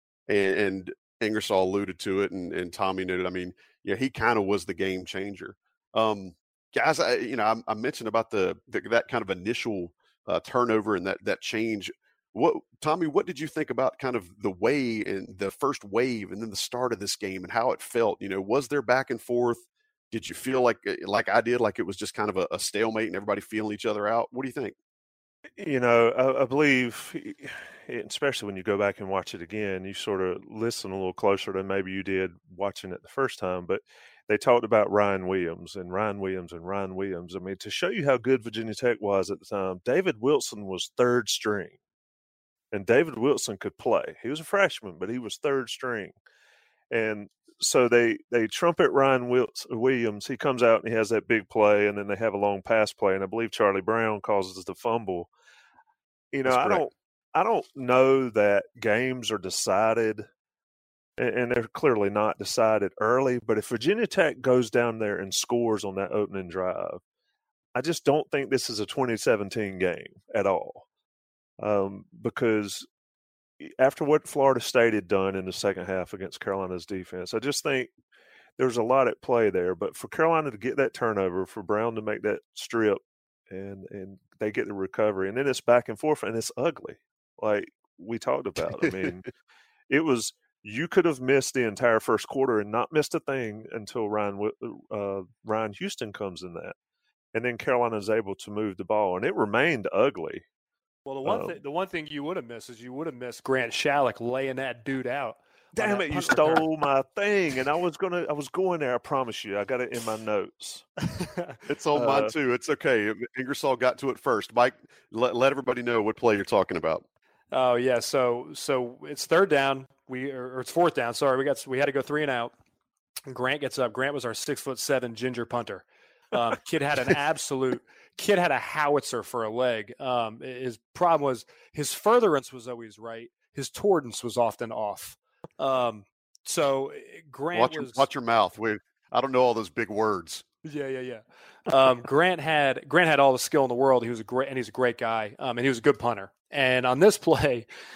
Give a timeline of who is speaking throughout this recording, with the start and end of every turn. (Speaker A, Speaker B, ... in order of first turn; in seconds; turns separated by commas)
Speaker A: 0.3-24.8, Speaker B: 25.6-41.8, Speaker B: 42.7-46.1, Speaker B: 46.9-55.3, Speaker B: 56.3-60.3, Speaker A: 56.5-56.8, Speaker B: 61.2-67.0, Speaker B: 67.8-70.8, Speaker B: 71.6-72.9, Speaker B: 73.6-77.9, Speaker B: 78.6-89.3, Speaker B: 89.9-96.8, Speaker B: 97.3-100.5, Speaker C: 101.1-106.7, Speaker B: 101.2-101.6, Speaker B: 105.8-110.9, Speaker A: 111.7-117.0, Speaker B: 112.0-112.3, Speaker C: 117.5-122.5, Speaker C: 123.3-138.1, Speaker A: 137.5-140.4, Speaker C: 140.6-147.7